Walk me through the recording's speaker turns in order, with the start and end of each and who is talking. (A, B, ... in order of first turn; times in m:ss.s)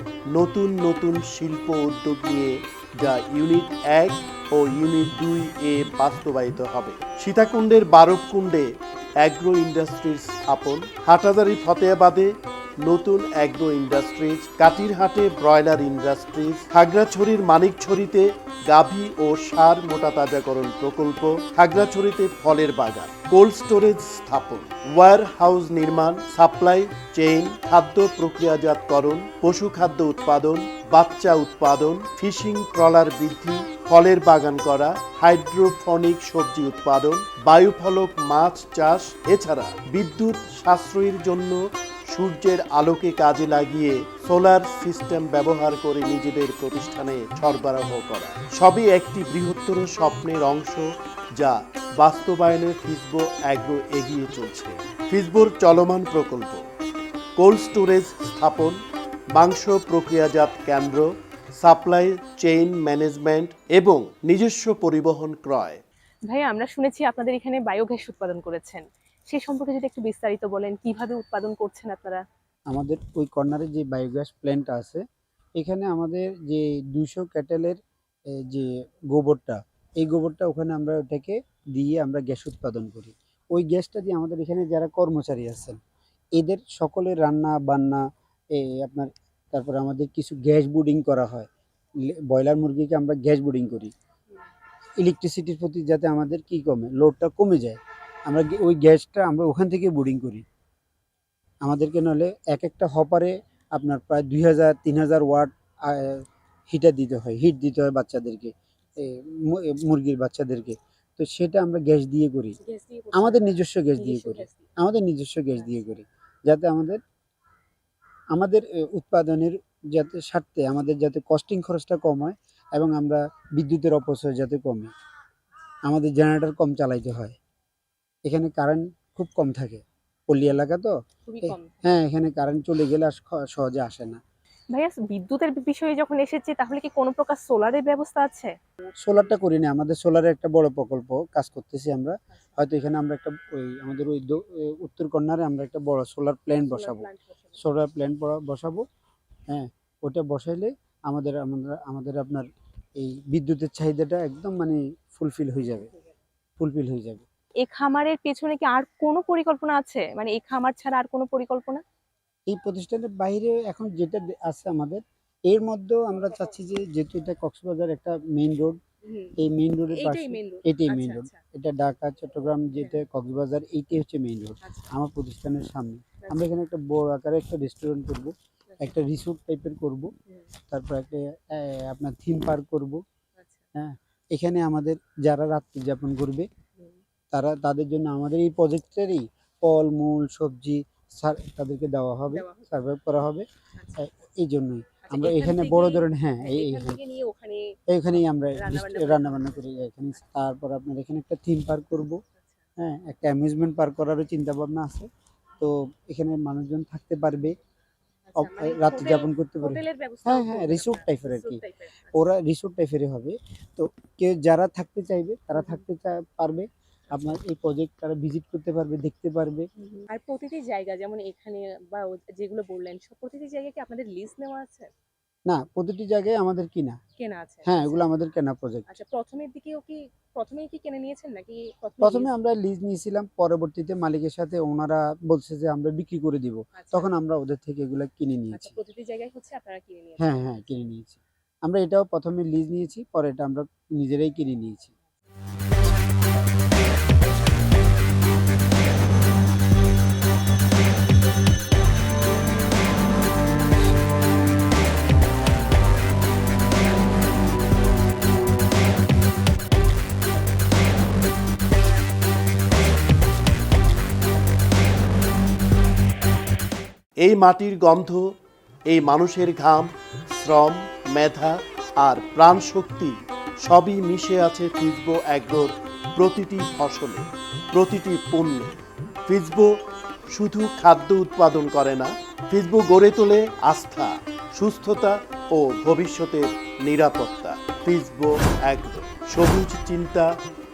0:00.3-0:56.7 A
0:57.4-0:58.8 A
0:59.3-1:05.8 A
1:06.3-1:12.2 B
1:12.7-1:15.0 C
1:15.6-1:17.8 C
1:18.3-1:25.8 C
1:26.4-1:31.5 C
1:32.0-1:33.9 C
1:35.0-1:40.4 C
1:41.6-1:52.6 C
1:52.6-1:54.8 B
1:53.1-1:57.0 C
1:58.3-2:04.9 C
2:05.8-2:07.4 C
2:08.2-2:14.2 C
2:11.3-2:12.0 B
2:14.7-2:18.5 B
2:19.0-2:28.8 C
2:26.6-2:27.6 B
2:29.5-2:32.5 C
2:33.0-2:35.9 C
2:36.6-2:37.2 C
2:37.6-2:41.8 B
2:42.5-2:48.8 C
2:49.0-2:49.4 B
2:49.4-3:00.1 C
2:49.9-2:51.4 B
2:52.8-2:53.0 B
2:54.6-2:54.9 B
2:56.2-2:56.5 B
2:58.7-2:59.0 B
3:00.7-3:03.0 C
3:03.8-3:06.5 C
3:07.3-3:17.0 C
3:12.3-3:12.7 B
3:13.8-3:14.1 B
3:15.1-3:17.8 B
3:17.9-3:22.2 C
3:18.5-3:19.8 B
3:22.8-3:25.1 C
3:25.6-3:27.6 C
3:28.3-3:32.3 B
3:28.4-3:31.6 C
3:32.1-3:39.7 C
3:35.6-3:35.8 B
3:39.8-3:44.9 B
3:45.5-3:47.0 C
3:47.2-3:48.1 B
3:47.6-3:48.9 C
3:48.9-3:52.3 B
3:52.0-3:58.8 C
3:56.8-3:57.1 B
3:58.5-4:00.6 B
4:00.2-4:04.9 C
4:27.2-4:28.2 A
4:28.9-4:39.8 A
4:40.3-4:50.3 A